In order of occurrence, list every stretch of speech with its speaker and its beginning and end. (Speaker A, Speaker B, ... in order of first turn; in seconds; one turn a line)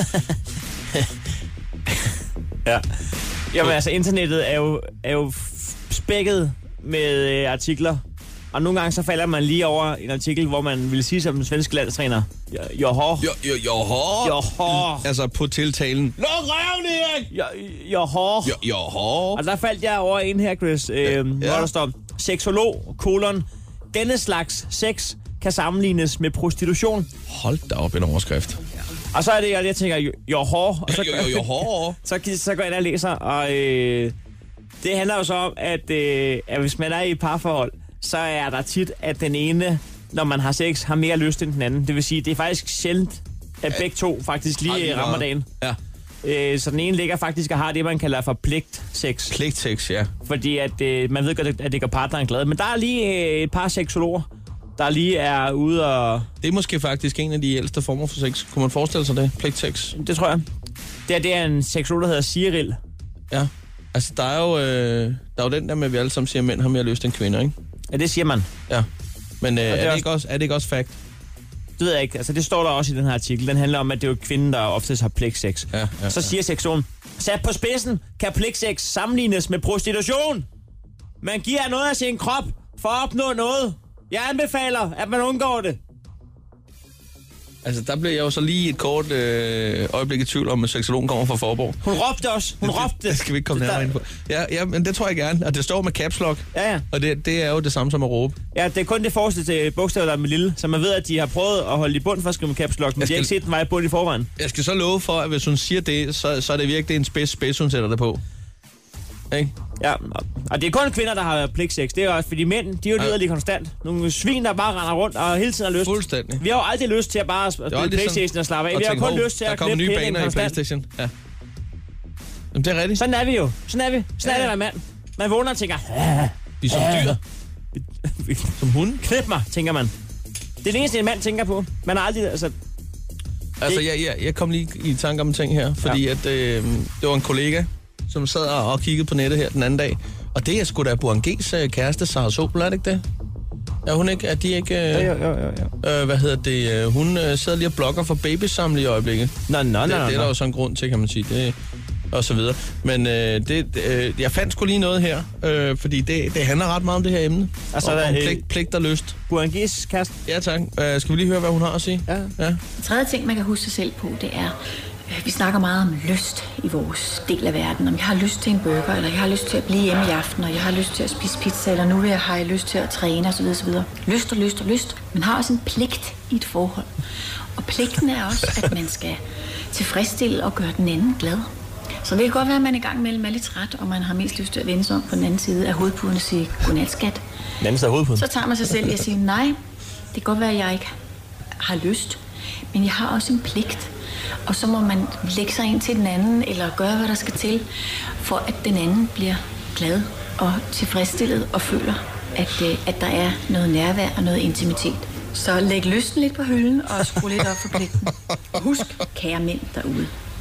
Speaker A: 3.5-13.3
Speaker B: 13.2-17.3
Speaker A: 14.2-15.1
Speaker A: 17.3-18.6
Speaker B: 18.4-19.4
Speaker A: 19.3-27.1
Speaker B: 21.0-21.7
Speaker B: 27.3-28.6
Speaker A: 29.1-34.1
Speaker B: 30.9-32.0
Speaker A: 34.8-45.5
Speaker B: 44.6-45.8
Speaker A: 46.2-49.4
Speaker B: 49.3-50.1
Speaker A: 50.2-56.3
Speaker B: 56.4-60.0
Speaker A: 59.9-60.5
Speaker A: 61.1-62.8
Speaker B: 63.3-67.5
Speaker A: 67.9-68.5
Speaker B: 69.4-71.0
Speaker A: 69.6-70.1
Speaker A: 71.8-80.5
Speaker B: 75.7-76.3
Speaker A: 81.2-85.8
Speaker B: 87.6-91.8
Speaker A: 91.8-94.0
Speaker B: 92.6-98.4
Speaker A: 96.5-96.8
Speaker A: 98.5-104.3
Speaker B: 103.0-103.3
Speaker B: 104.4-108.2
Speaker A: 109.8-120.6
Speaker B: 115.8-116.4
Speaker B: 117.7-121.1
Speaker B: 122.5-123.0
Speaker A: 123.0-127.2
Speaker B: 124.2-124.5
Speaker B: 126.6-127.2
Speaker A: 127.7-129.9
Speaker B: 128.6-129.0
Speaker A: 130.6-132.6
Speaker B: 133.6-143.0
Speaker B: 143.8-145.1
Speaker A: 144.9-145.7
Speaker B: 145.8-151.6
Speaker A: 149.5-150.3
Speaker B: 152.1-159.2
Speaker A: 157.7-158.4
Speaker A: 159.3-160.2
Speaker B: 160.3-162.6
Speaker C: 162.8-164.5
Speaker C: 165.1-176.9
Speaker C: 177.6-179.2
Speaker C: 179.7-181.4
Speaker C: 182.0-187.2
Speaker A: 187.6-188.3
Speaker C: 188.2-189.6
Speaker C: 190.1-190.9
Speaker C: 191.6-192.2
Speaker C: 192.7-193.9
Speaker C: 194.5-197.7
Speaker C: 198.2-210.1
Speaker B: 207.1-207.4